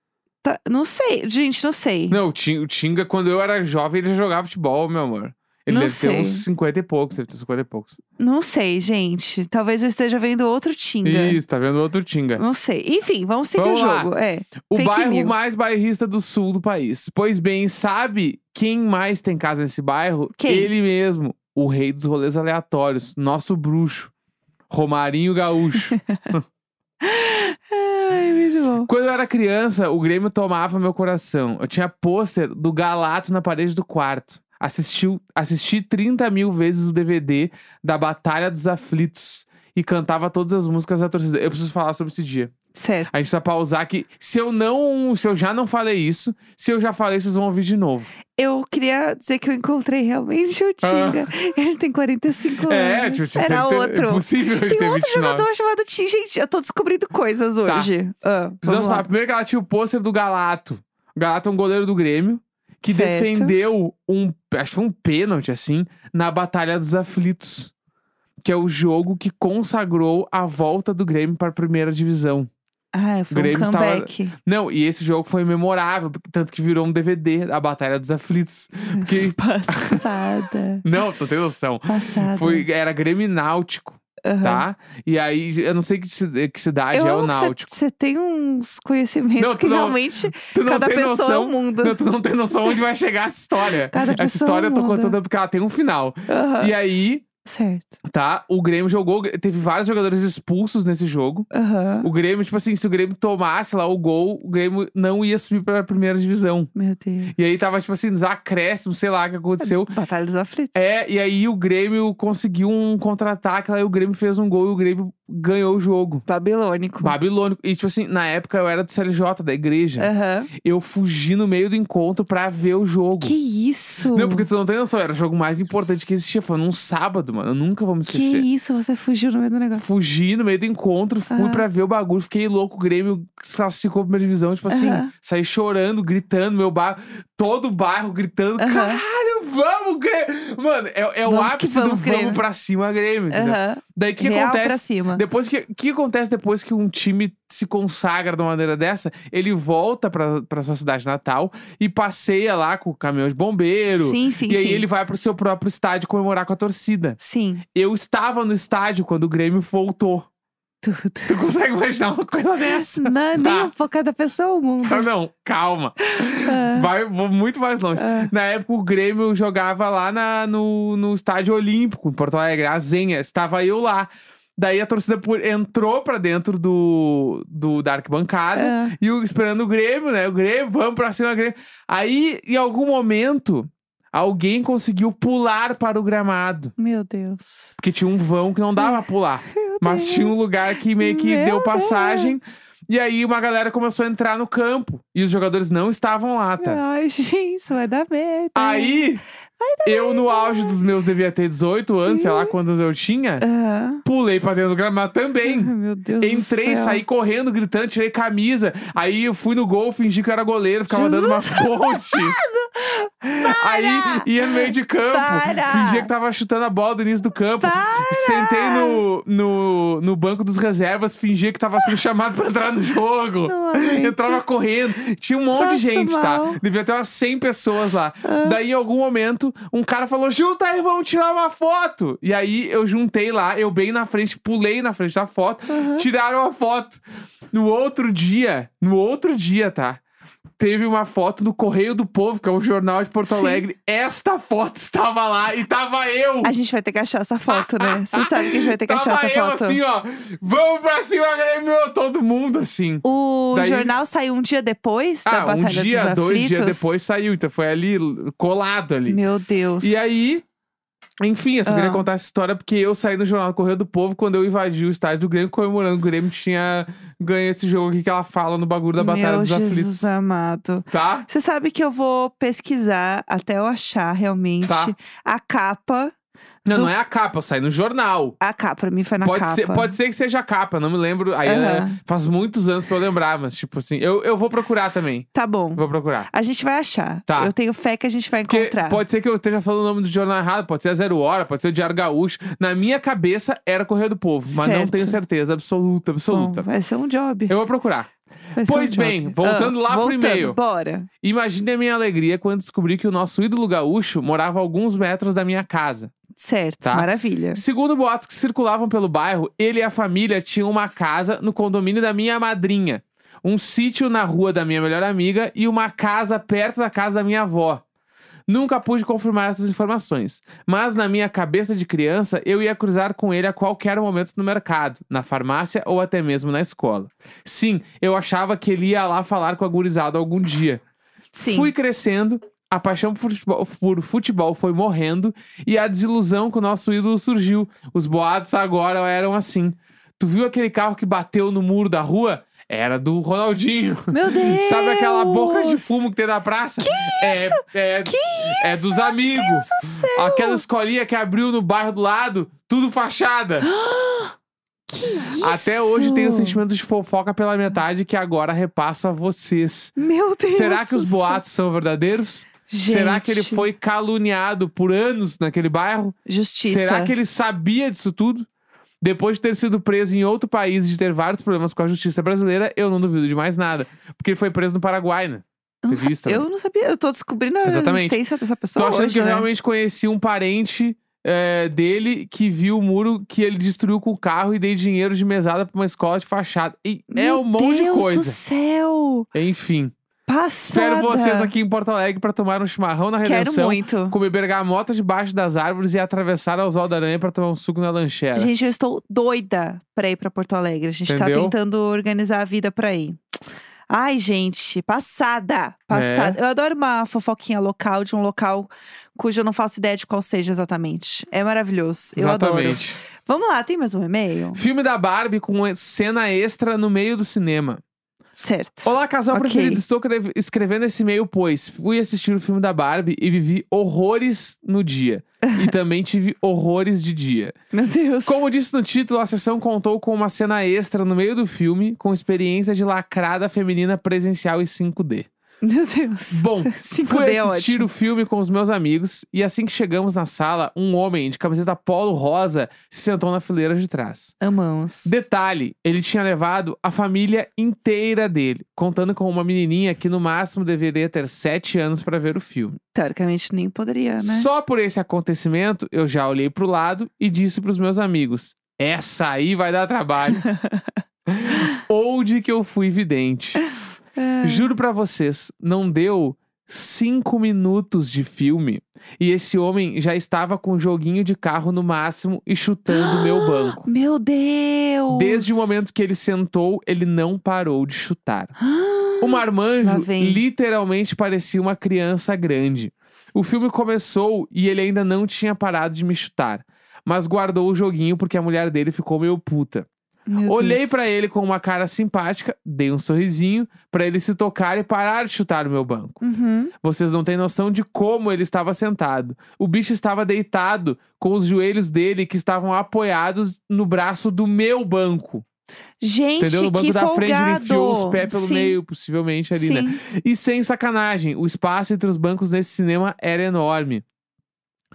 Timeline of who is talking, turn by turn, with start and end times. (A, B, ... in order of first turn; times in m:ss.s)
0:00.4-0:02.2 A
0:02.1-0:08.0 B
0:05.7-0:06.4 A
0:08.2-0:11.4 A
0:11.0-0:12.4 B
0:12.4-0:15.5 A
0:13.6-0:14.1 B
0:14.7-0:24.1 B
0:20.4-0:20.7 A
0:24.7-0:26.4 B
0:25.8-0:26.3 A
0:27.0-0:28.9 A
0:28.9-0:42.5 B
0:42.7-0:43.1 A
0:43.1-0:48.1 B
0:48.3-0:59.1 A
0:50.8-0:51.3 B
0:52.6-0:55.5 B
0:57.6-0:57.9 B
0:58.6-1:07.7 B
1:02.8-1:03.6 A
1:08.4-1:12.5 B
1:12.9-1:14.4 A
1:13.3-1:20.0 B
1:18.9-1:20.8 A
1:20.8-1:27.7 B
1:21.9-1:22.7 A
1:24.2-1:24.6 A
1:26.9-1:32.0 A
1:29.4-1:37.2 B
1:33.9-1:35.2 A
1:36.3-1:36.7 A
1:37.4-1:38.0 A
1:38.0-1:41.5 B
1:41.5-1:42.1 A
1:42.0-1:46.7 B
1:46.8-1:47.5 A
1:47.3-1:49.9 B
1:49.6-1:50.8 A
1:50.8-1:56.2 B
1:56.3-1:57.2 A
1:57.0-2:03.4 B
2:00.0-2:00.5 A
2:03.2-2:04.5 A
2:04.1-2:08.5 B
2:08.1-2:09.8 A
2:09.8-2:37.2 B
2:11.3-2:11.6 A
2:14.7-2:15.1 A
2:18.6-2:19.0 A
2:21.2-2:22.4 A
2:23.3-2:25.2 A
2:33.9-2:34.8 A
2:37.2-2:37.6 A
2:37.7-2:40.3 B
2:40.8-2:41.4 A
2:41.3-2:43.7 B
2:42.6-2:45.1 A
2:44.9-3:06.7 B
2:46.0-2:46.9 A
2:48.0-2:48.3 A
2:58.6-2:59.0 A
3:06.8-3:07.7 A
3:07.8-3:16.8 B
3:09.5-3:10.4 A
3:11.0-3:12.4 A
3:16.6-3:20.8 A
3:18.6-3:19.2 B
3:19.8-3:23.4 B
3:22.1-3:22.6 A
3:23.4-3:24.0 A
3:24.0-3:32.4 B
3:25.4-3:27.0 A
3:30.9-3:36.1 A
3:33.2-3:57.0 B
3:37.6-3:39.0 A
3:43.5-3:44.4 A
3:45.5-3:46.6 A
3:48.2-3:48.6 A
3:55.7-3:56.1 A
3:57.5-4:00.0 B
4:00.6-4:06.5 B
4:03.3-4:03.6 A
4:06.4-4:09.8 A
4:07.5-4:13.9 B
4:13.0-4:17.0 A
4:15.3-4:19.2 B
4:19.1-4:20.4 A
4:19.8-4:20.4 B
4:21.2-4:30.2 B
4:21.6-4:22.1 A
4:29.0-4:36.1 A
4:30.9-4:31.3 B
4:34.6-4:34.9 B
4:36.6-4:36.9 A
4:36.6-4:38.4 B
4:38.4-4:40.0 A
4:39.2-4:46.3 B
4:41.4-4:42.0 A
4:45.3-4:49.0 A
4:47.3-4:47.5 B
4:48.5-4:56.6 B
4:54.5-4:55.2 A
4:56.3-4:57.6 A
4:57.5-5:00.6 B
4:58.6-5:01.1 A
5:01.2-5:06.1 B
5:06.4-5:07.6 A
5:06.8-5:17.8 B
5:18.5-5:30.8 B
5:31.3-5:31.7 A
5:31.5-5:53.7 B
5:44.1-5:46.0 A
5:46.8-5:50.6 A
5:53.6-5:54.4 A
5:54.9-5:56.6 A
5:55.3-6:00.0 B
6:00.0-6:01.4 A
6:00.5-6:08.5 B
6:02.7-6:03.7 A
6:06.3-6:07.1 A
6:09.0-6:16.4 B
6:15.8-6:19.5 A
6:17.6-6:18.2 B
6:18.8-6:28.4 B
6:27.1-6:29.3 A
6:29.3-6:29.9 B
6:30.3-6:31.5 A
6:30.6-6:38.5 B
6:33.2-6:34.2 A
6:38.4-6:43.2 A
6:41.1-6:41.6 B
6:43.9-6:54.6 A
6:45.9-6:46.4 B
6:52.2-6:53.0 B
6:54.5-6:57.8 B
6:58.3-6:59.8 A
6:58.8-7:07.6 B
7:05.4-7:05.7 A
7:07.7-7:08.4 A
7:08.3-7:15.3 B
7:15.6-7:17.9 A
7:16.3-7:24.3 B
7:24.4-7:25.2 A
7:25.0-7:32.8 B
7:32.9-7:34.5 A
7:34.2-7:40.4 B
7:40.4-7:40.9 A
7:41.3-7:43.6 B
7:44.2-7:44.7 A
7:44.4-7:53.8 B
7:52.9-7:55.8 A
7:55.1-7:58.6 B
7:58.6-8:00.4 A
7:59.2-8:09.9 B
8:10.3-8:11.1 A
8:10.4-8:16.2 B
8:16.2-8:16.7 A
8:16.8-8:25.4 B
8:26.0-8:28.8 A
8:26.4-8:34.0 B
8:29.5-8:30.0 A